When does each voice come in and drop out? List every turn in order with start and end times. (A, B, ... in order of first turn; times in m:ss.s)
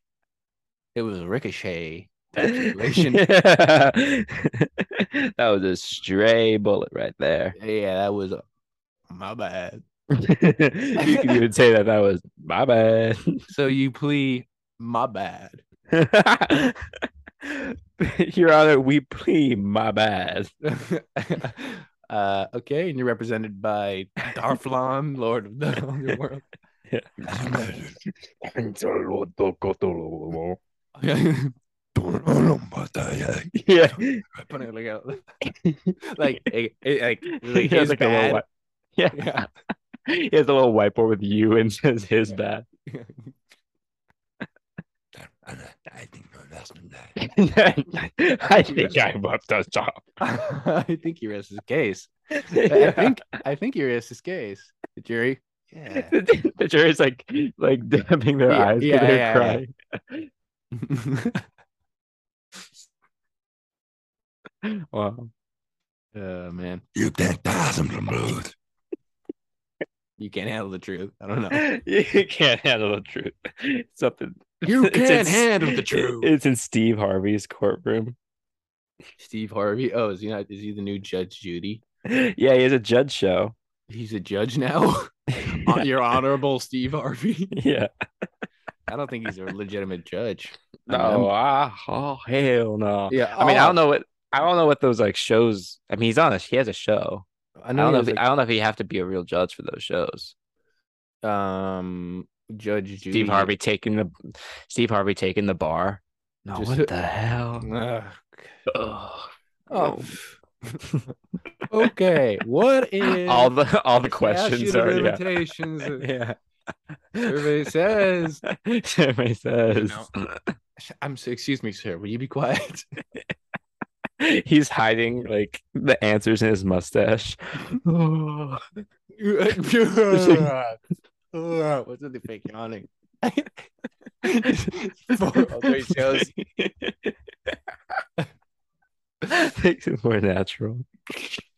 0:01.0-0:03.2 A
0:02.5-0:07.6 B
0:07.6-0:08.4 A
0:09.1-0:09.8 A
0:10.1-0:13.4 B
0:11.0-0:11.4 A
0:13.5-0:15.6 A
0:15.9-0:20.5 B
0:20.6-0:26.5 A
0:26.9-0:27.7 B
0:27.3-0:27.9 C
0:28.3-0:30.6 B
0:31.0-0:31.6 A
0:32.0-0:33.6 C
0:33.5-0:34.2 B
0:34.3-0:35.3 A
0:35.5-0:36.3 B
0:36.0-0:38.4 A
0:37.3-0:39.5 B
0:39.1-0:39.5 A
0:40.1-0:42.7 B
0:42.9-0:43.3 A
0:45.2-0:47.1 C
0:47.2-0:50.1 B
0:48.5-0:49.0 A
0:50.2-0:56.2 A
0:52.3-0:53.2 B
0:55.9-1:00.3 B
0:58.5-0:59.6 A
1:00.8-1:01.4 A
1:04.6-1:05.3 B
1:06.1-1:06.8 A
1:07.0-1:08.5 C
1:10.2-1:11.7 A
1:11.5-1:18.2 B
1:14.6-1:16.3 A
1:19.2-1:21.8 A
1:22.1-1:23.6 B
1:23.9-1:27.6 A
1:25.4-1:25.9 B
1:27.5-1:27.9 B
1:28.9-1:31.3 A
1:30.9-1:40.3 B
1:33.1-1:33.8 A
1:37.6-1:38.2 A
1:41.2-1:43.5 A
1:43.1-1:44.1 B
1:44.7-1:47.7 B
1:46.6-1:46.9 A
1:47.6-1:48.6 A
1:48.7-1:50.2 B
1:49.7-1:50.8 A
1:51.7-1:53.5 A
1:53.0-1:55.2 B
1:54.0-1:56.1 A
1:56.0-1:56.4 B
1:56.9-1:57.7 B
1:57.2-1:58.4 A
1:58.4-2:00.5 B
1:59.7-2:00.1 A
2:00.8-2:02.8 A
2:04.2-2:08.6 B
2:09.2-2:10.8 A
2:10.1-2:10.5 B
2:11.3-2:13.7 A
2:14.2-2:16.3 A
2:15.3-2:17.6 B
2:19.2-2:21.4 B